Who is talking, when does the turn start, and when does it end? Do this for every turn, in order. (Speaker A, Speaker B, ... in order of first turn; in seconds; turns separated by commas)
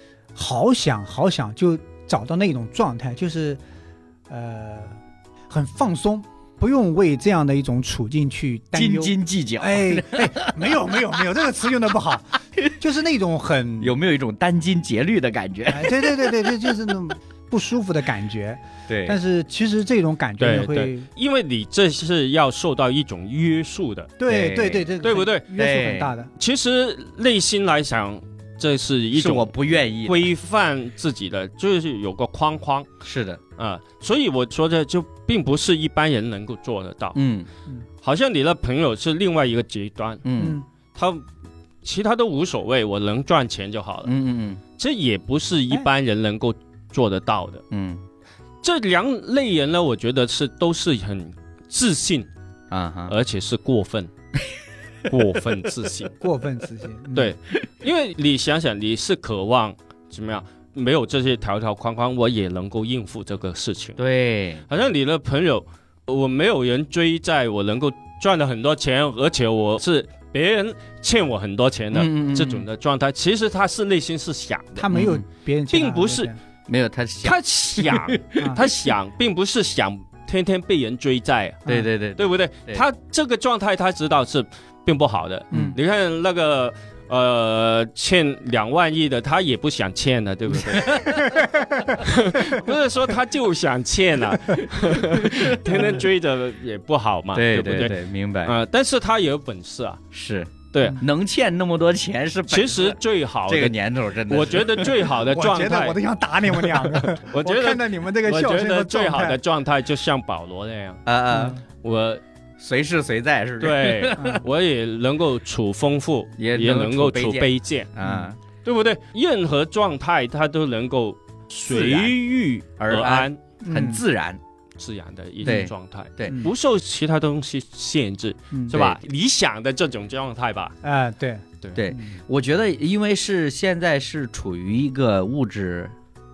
Speaker A: 0.3-3.6, Speaker A: 4.3-4.9, Speaker A: 5.5-13.9, Speaker B: 8.7-11.0, Speaker B: 13.8-16.3, Speaker A: 15.7-21.1, Speaker B: 18.9-19.2, Speaker C: 20.4-24.1, Speaker A: 24.2-26.3, Speaker B: 24.3-24.9, Speaker C: 25.0-25.4, Speaker B: 25.6-26.1, Speaker C: 26.4-32.9, Speaker B: 29.1-30.3, Speaker B: 33.0-33.4, Speaker C: 33.6-37.2, Speaker B: 37.1-37.5, Speaker C: 38.0-40.3, Speaker B: 40.2-40.6, Speaker A: 40.4-40.6, Speaker C: 41.0-41.2, Speaker C: 41.8-44.1, Speaker B: 44.0-44.6, Speaker C: 44.8-47.6, Speaker B: 47.7-48.0, Speaker C: 48.6-52.3, Speaker B: 52.7-53.1, Speaker C: 53.1-54.1, Speaker C: 55.1-56.1, Speaker A: 56.2-57.3, Speaker C: 57.2-64.0, Speaker B: 64.0-64.6, Speaker C: 64.7-75.0, Speaker B: 71.9-72.7, Speaker A: 74.8-76.4, Speaker B: 74.9-75.2, Speaker C: 75.7-76.3, Speaker B: 76.7-78.7, Speaker C: 77.2-100.0, Speaker A: 78.4-78.6, Speaker B: 81.7-82.8, Speaker B: 90.6-91.2, Speaker A: 91.1-92.0, Speaker B: 95.0-95.9, Speaker B: 97.3-98.5, Speaker B: 100.1-105.1, Speaker C: 100.7-101.0, Speaker C: 102.5-103.8, Speaker C: 104.3-106.0, Speaker A: 105.2-109.4, Speaker C: 106.5-111.0, Speaker B: 111.0-111.6, Speaker A: 111.3-111.6, Speaker C: 111.6-112.2, Speaker B: 112.6-114.4, Speaker C: 113.6-117.9, Speaker B: 116.4-118.4, Speaker C: 118.6-123.4, Speaker B: 121.7-122.2, Speaker B: 122.8-124.4, Speaker A: 123.6-124.0, Speaker C: 124.8-130.8, Speaker B: 125.4-126.4, Speaker A: 128.5-128.8, Speaker B: 128.7-129.0, Speaker A: 130.8-132.2, Speaker B: 131.7-135.9